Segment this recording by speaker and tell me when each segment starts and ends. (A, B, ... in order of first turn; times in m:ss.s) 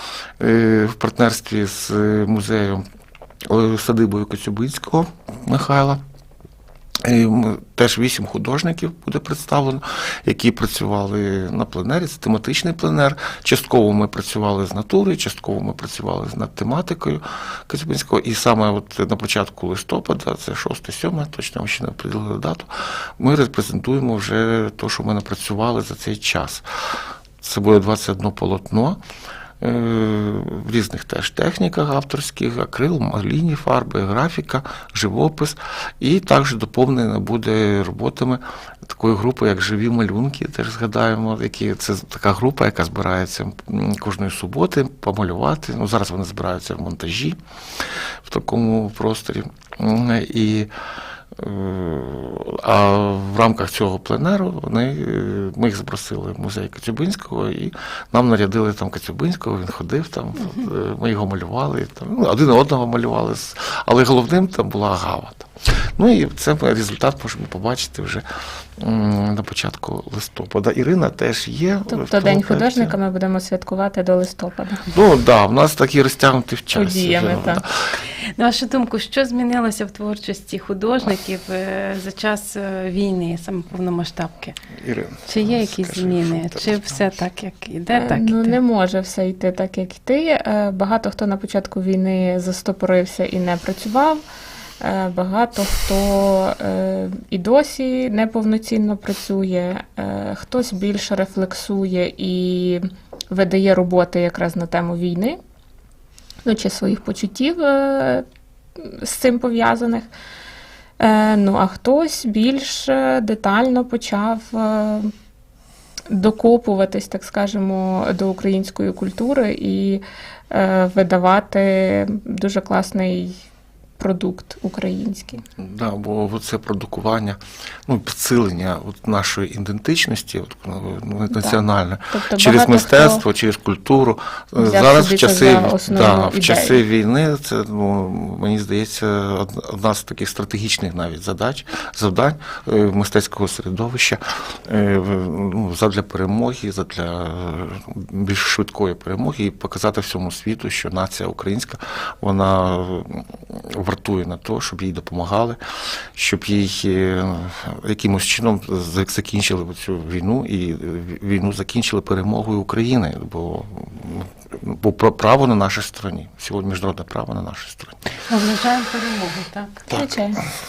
0:00.4-0:02.8 A
0:03.5-0:06.0 A
0:07.0-0:26.6 A
0:27.4-0:29.0 A
0:29.6-0:47.4 A
0:48.2-0:50.7 A
0:51.4-1:08.2 A
1:08.8-1:13.0 A
1:11.9-1:14.8 B
1:14.9-1:17.7 A
1:16.7-1:17.6 B
1:18.4-1:24.6 C
1:24.8-1:27.1 A
1:25.2-1:28.6 C
1:27.9-1:34.2 B
1:34.8-1:45.4 B
1:46.4-1:48.2 B
1:48.8-1:50.1 B
1:51.0-1:55.1 B
1:56.1-2:03.4 B
2:04.0-2:05.4 B
2:05.6-2:48.0 A
2:11.3-2:11.6 B
2:12.1-2:13.2 B
2:14.6-2:16.8 B
2:48.3-2:49.8 C
2:49.9-2:50.4 B
2:49.9-2:50.2 A